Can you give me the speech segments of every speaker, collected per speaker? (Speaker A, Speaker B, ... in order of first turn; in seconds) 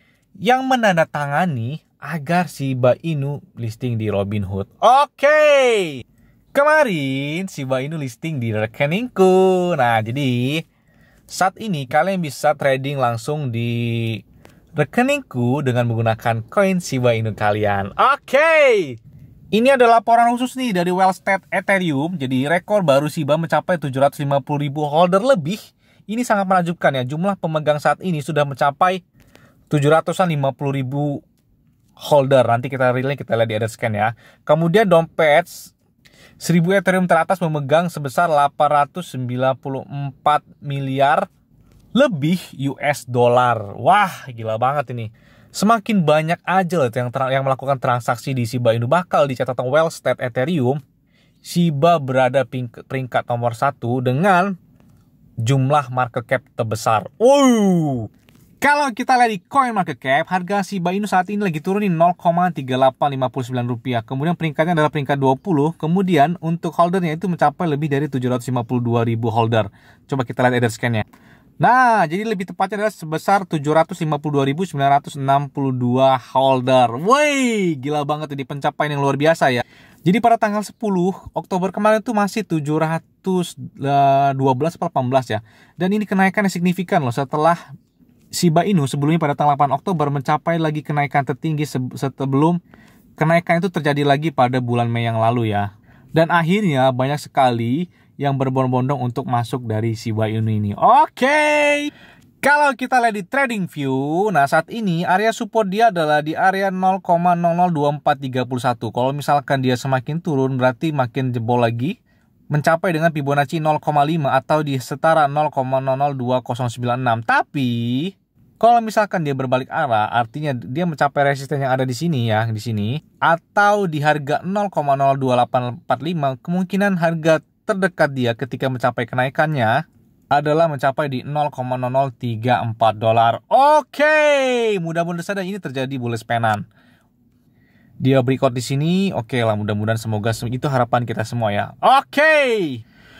Speaker A: 0.4-6.0, 6.5-10.6, 11.3-14.2, 14.8-19.0, 19.5-29.0, 29.7-31.2, 32.0-35.7, 36.4-41.3, 42.0-50.8, 51.4-54.6, 55.4-58.1, 58.6-71.0, 71.6-87.6, 88.3-92.6, 93.2-101.9, 102.4-111.9, 112.5-129.7, 130.3-136.6, 138.0-142.8